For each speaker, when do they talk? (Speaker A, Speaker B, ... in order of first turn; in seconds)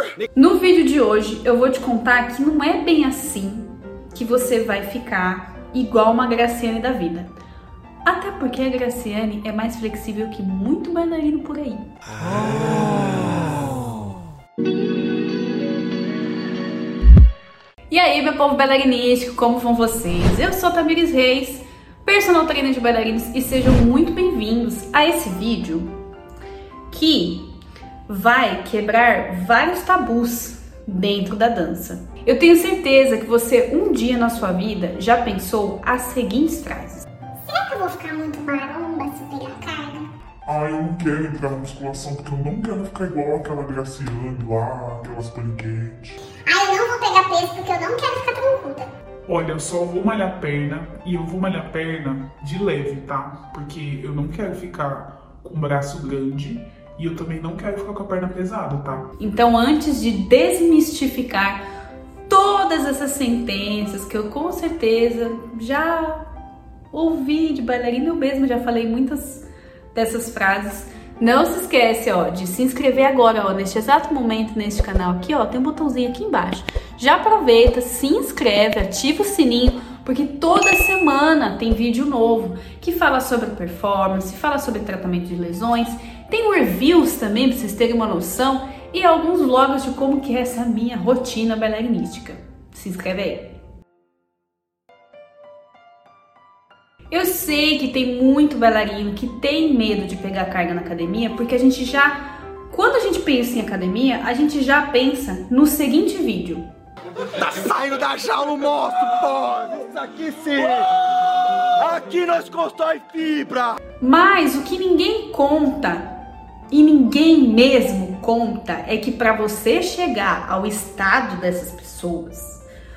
Speaker A: 0.3-7.3, 8.0-11.9, 17.9-25.9, 26.9-27.5, 28.1-37.0, 59.2-61.6, 62.3-66.3, 66.9-93.6, 97.1-106.7, 114.0-116.1, 116.7-122.6
Speaker B: 37.5-40.1, 46.4-48.9
Speaker C: 40.5-46.1
Speaker D: 49.3-59.0
Speaker E: 107.3-113.8